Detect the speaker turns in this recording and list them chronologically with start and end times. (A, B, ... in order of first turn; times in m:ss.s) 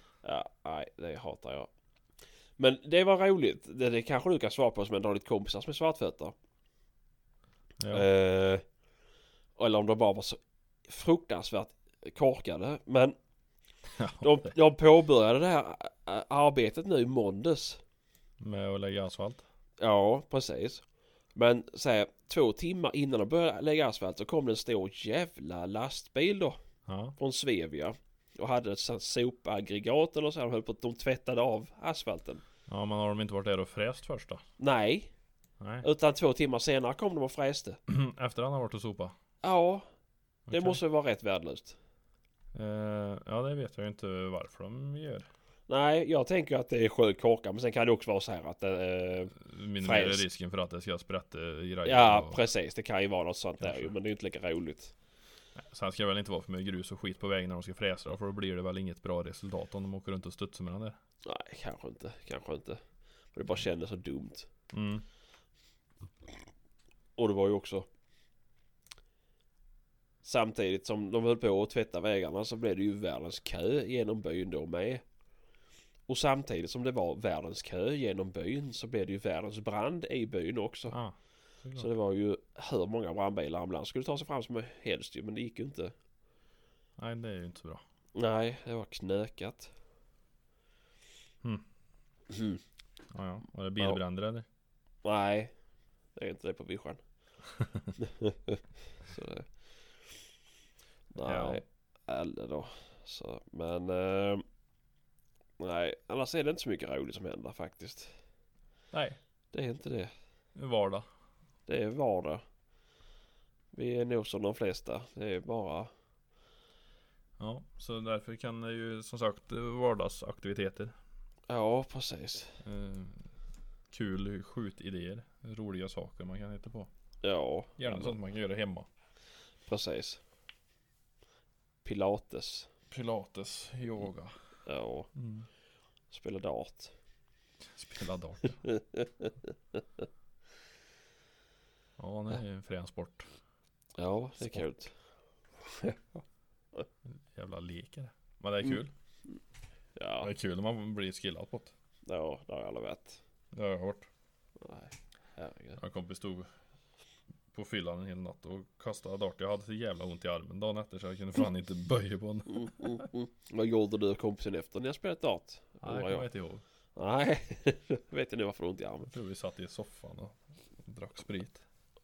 0:00.2-0:01.7 A
0:02.6-0:06.4 A
0:07.8-0:08.1 B
0:07.9-0:08.6 A
0:09.6-0:13.2 A
0:13.9-0:14.5 B
0:14.2-0:17.8 A
0:18.4-0:19.4 B
0:19.8-0:20.8 A
0:21.4-0:26.6 A
0:26.9-0:27.2 B
0:27.2-0:32.4 A
0:32.7-0:34.4 B
0:34.6-0:35.1 A
0:35.6-0:35.9 B
0:35.8-0:37.8 A
0:37.9-0:39.1 B
0:39.4-0:39.9 A
0:40.5-0:40.8 B
0:40.5-0:41.8 A
0:42.5-0:45.3 B
0:45.7-0:50.2 A
0:49.4-0:52.4 B
0:51.8-0:55.0 A
0:53.6-0:53.9 B
0:55.6-1:01.0 B
1:01.2-1:02.8 A
1:03.3-1:04.5 A
1:04.7-1:05.0 B
1:07.2-1:07.9 A
1:10.2-1:15.0 A
1:16.1-1:21.0 A
1:20.9-1:21.9 B
1:21.8-1:25.9 A
1:27.0-1:27.8 B
1:28.2-1:29.7 A
1:32.3-1:32.6 A
1:33.1-1:34.5 B
1:35.0-1:35.5 A
1:36.2-1:37.0 A
1:37.5-1:37.9 B
1:38.0-1:39.5 A
1:41.1-1:44.4 A
1:41.2-1:41.6 B
1:45.6-1:48.2 A
1:48.9-1:49.2 B
1:49.5-1:50.1 A
1:50.6-1:51.1 B
1:51.7-1:52.4 A
1:53.7-1:55.9 A
1:57.4-2:01.0 B
2:01.5-2:02.6 A
2:02.6-2:03.3 B
2:03.9-2:06.9 B
2:07.2-2:08.2 A
2:07.8-2:08.9 B
2:09.7-2:10.2 A
2:11.8-2:12.7 A
2:12.9-2:14.3 B
2:14.7-2:15.1 A
2:15.1-2:15.5 B
2:16.1-2:16.9 A
2:17.6-2:18.6 B
2:18.6-2:20.1 A
2:22.0-2:23.3 B
2:24.0-2:24.9 A
2:24.4-2:24.7 B
2:25.6-2:26.2 A
2:27.1-2:28.9 B
2:28.6-2:29.4 A
2:30.0-2:30.3 A
2:30.2-2:31.7 B
2:32.1-2:33.2 A
2:33.5-2:34.1 B
2:34.6-2:35.8 A
2:35.8-2:36.5 B
2:37.5-2:43.1 B
2:42.5-2:46.3 A
2:45.8-2:46.6 B
2:47.0-2:49.1 A
2:49.1-2:51.6 B